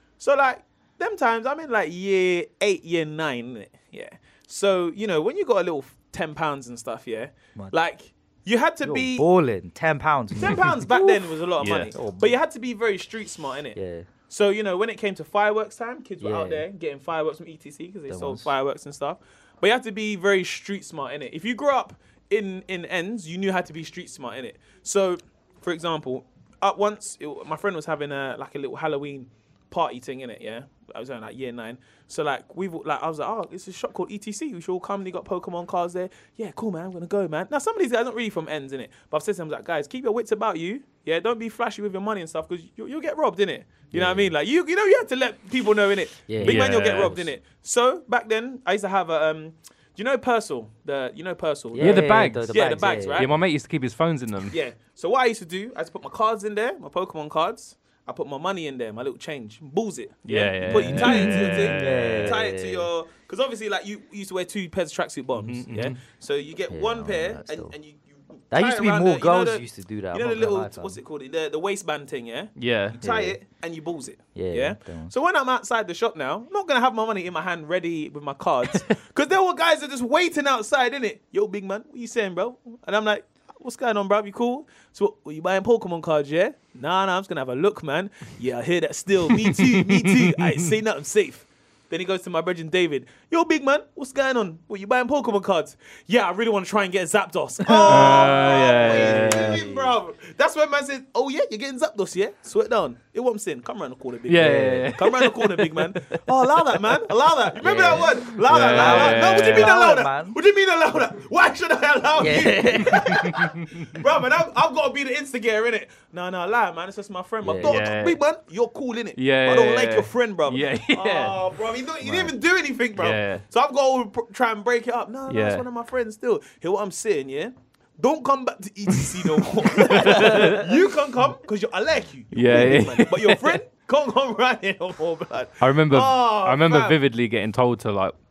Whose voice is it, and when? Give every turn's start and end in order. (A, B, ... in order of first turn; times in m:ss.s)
0:00.2-0:09.3 A
0:08.8-0:11.1 B
0:10.4-0:13.8 A
0:11.6-0:11.9 C
0:11.9-0:12.4 B
0:13.7-0:14.1 B
0:14.3-0:53.3 A
0:16.2-0:16.6 B
0:18.1-0:18.5 B
0:43.9-0:44.3 B
0:46.3-0:47.1 B
0:46.4-0:47.2 C
0:51.7-0:53.3 B
0:51.8-0:54.5 C
0:54.5-2:17.0 A
1:00.3-1:02.3 C
1:00.6-1:02.9 B
1:05.4-1:06.0 C
1:06.7-1:07.7 B
1:08.5-1:11.0 B
1:12.6-1:13.0 C
1:13.0-1:13.4 B
1:14.3-1:15.1 B
1:29.4-1:30.1 C
1:37.8-1:39.9 B
1:37.8-1:39.6 C
1:44.3-1:46.2 C
1:44.4-1:44.9 B
1:47.6-1:50.4 B
1:48.0-1:49.7 C
1:52.2-1:53.3 B
1:57.4-1:57.8 B
1:57.6-1:58.2 C
1:59.2-2:01.4 C
2:02.0-2:02.3 B
2:03.0-2:03.4 C
2:05.3-2:05.6 C
2:09.2-2:10.7 C
2:10.0-2:10.6 B
2:12.3-2:13.6 C
2:15.6-2:18.1 C